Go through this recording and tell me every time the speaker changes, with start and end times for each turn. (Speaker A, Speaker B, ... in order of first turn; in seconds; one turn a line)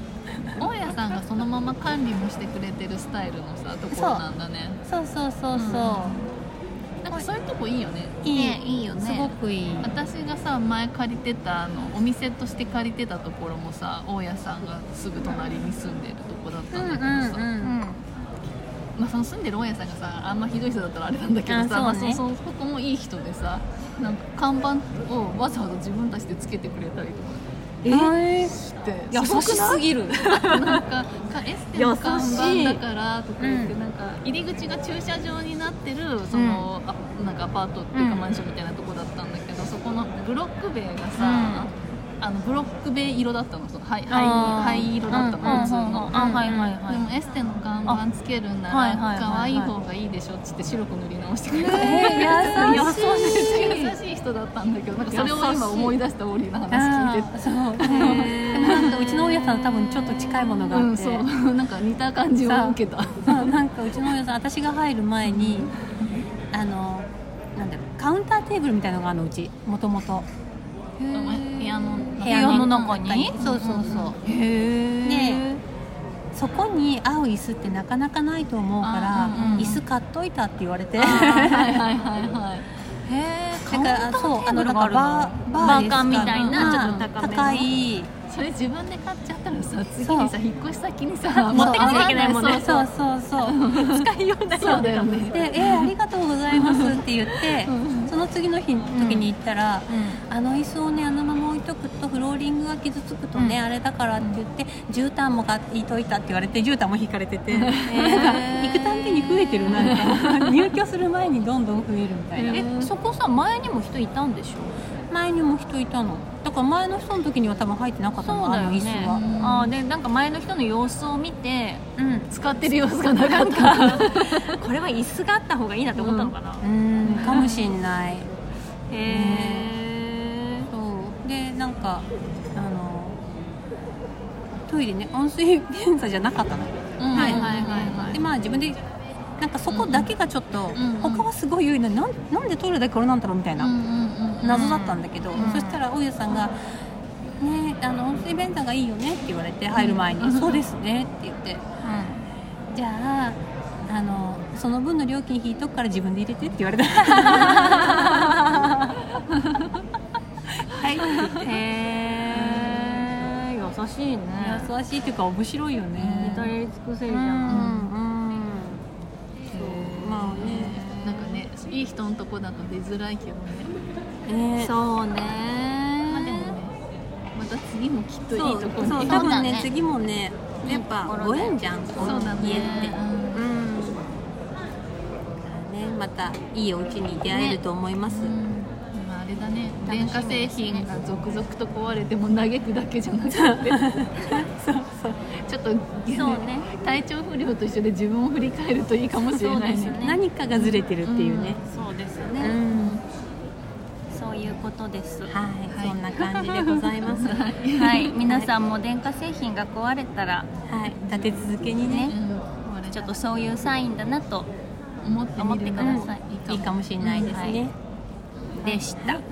Speaker A: 0.6-4.8
Speaker B: 3.9-4.2
Speaker B: 4.8-6.2
Speaker A: 5.5-6.3
Speaker A: 7.0-8.2
Speaker B: 8.2-9.9
Speaker C: 8.3-9.3
Speaker A: 9.8-17.4
Speaker B: 16.7-17.8
Speaker C: 17.6-18.1
Speaker A: 18.9-27.4
Speaker B: 21.5-22.2
Speaker C: 27.8-28.2
Speaker B: 27.9-28.6
Speaker A: 28.4-46.4
Speaker C: 29.1-30.8
Speaker B: 29.3-29.8
Speaker C: 31.8-32.8
Speaker B: 31.9-32.4
Speaker B: 33.4-33.7
Speaker C: 36.3-36.7
Speaker C: 37.9-38.3
Speaker C: 41.2-41.7
Speaker B: 44.1-46.7
Speaker C: 45.4-47.1
Speaker A: 46.9-59.0
Speaker C: 48.7-49.7
Speaker B: 51.6-53.6
Speaker C: 51.7-53.9
Speaker C: 55.0-55.9
Speaker B: 56.7-61.2
Speaker C: 57.8-60.6
Speaker A: 60.7-63.5
Speaker B: 62.4-65.7
Speaker A: 65.2-66.2
Speaker B: 66.5-70.3
Speaker C: 71.0-75.6
Speaker A: 71.1-74.1
Speaker B: 72.2-74.2
Speaker B: 75.0-75.5
Speaker B: 76.3-81.8
Speaker A: 78.8-79.8
Speaker C: 79.2-79.8
Speaker A: 81.0-82.7
Speaker C: 83.0-87.7
Speaker B: 83.6-88.1
Speaker A: 85.6-86.9
Speaker A: 88.3-92.9
Speaker B: 90.0-90.3
Speaker C: 91.3-92.8
Speaker B: 91.5-93.6
Speaker A: 93.4-94.0
Speaker C: 93.5-95.5
Speaker A: 94.6-95.9
Speaker B: 95.3-112.6
Speaker A: 96.5-98.1
Speaker C: 98.9-99.3
Speaker C: 99.9-100.2
Speaker C: 103.3-103.6
Speaker A: 107.5-108.4
Speaker C: 108.0-110.1
Speaker A: 109.9-110.7
Speaker C: 112.4-114.7
Speaker A: 112.5-112.9
Speaker B: 115.1-119.2
Speaker C: 118.2-121.8
Speaker A: 119.0-119.7
Speaker B: 122.0-122.3
Speaker A: 122.3-124.5
Speaker C: 123.2-127.7
Speaker B: 125.9-128.3
Speaker A: 127.0-127.3
Speaker C: 128.9-130.7
Speaker B: 129.0-129.7
Speaker B: 130.7-133.2
Speaker B: 134.6-137.5
Speaker A: 137.0-138.2
Speaker C: 137.1-138.2
Speaker B: 138.1-138.8
Speaker B: 139.4-143.7
Speaker A: 139.7-140.1
Speaker A: 140.7-141.2
Speaker A: 143.6-144.6
Speaker B: 144.4-146.7
Speaker C: 144.4-145.8
Speaker B: 147.4-151.6
Speaker A: 149.7-150.6
Speaker C: 151.8-152.2
Speaker B: 152.7-158.7
Speaker C: 157.2-158.7
Speaker B: 160.6-161.6
Speaker C: 161.1-164.7
Speaker B: 162.3-163.0
Speaker B: 164.3-166.5
Speaker C: 165.9-167.7
Speaker B: 167.1-168.8
Speaker A: 167.5-167.9
Speaker B: 169.5-170.8
Speaker C: 169.5-171.4
Speaker A: 170.5-173.7
Speaker B: 174.2-174.7
Speaker C: 174.6-176.5
Speaker A: 176.1-176.7
Speaker A: 177.3-179.3
Speaker B: 178.3-184.1
Speaker C: 178.9-179.7
Speaker C: 180.6-182.9
Speaker A: 182.0-183.5
Speaker B: 185.4-188.3
Speaker C: 187.3-187.6
Speaker A: 188.1-194.4
Speaker C: 189.8-190.9
Speaker B: 193.3-195.2
Speaker A: 195.3-200.0
Speaker C: 196.1-196.7
Speaker C: 199.3-200.2
Speaker B: 199.9-201.6
Speaker A: 200.6-201.6
Speaker C: 201.6-202.6
Speaker B: 202.4-203.0
Speaker A: 202.7-203.0
Speaker C: 204.1-205.3
Speaker B: 205.3-207.4
Speaker A: 205.7-206.0
Speaker A: 207.1-208.2
Speaker C: 207.7-210.5
Speaker B: 208.2-208.5
Speaker B: 210.7-212.1
Speaker C: 211.9-212.2
Speaker A: 212.1-213.2
Speaker C: 212.9-214.5
Speaker A: 215.0-217.5
Speaker C: 215.4-216.2
Speaker B: 215.8-217.7
Speaker C: 217.1-217.6
Speaker C: 218.6-219.2
Speaker B: 218.6-219.2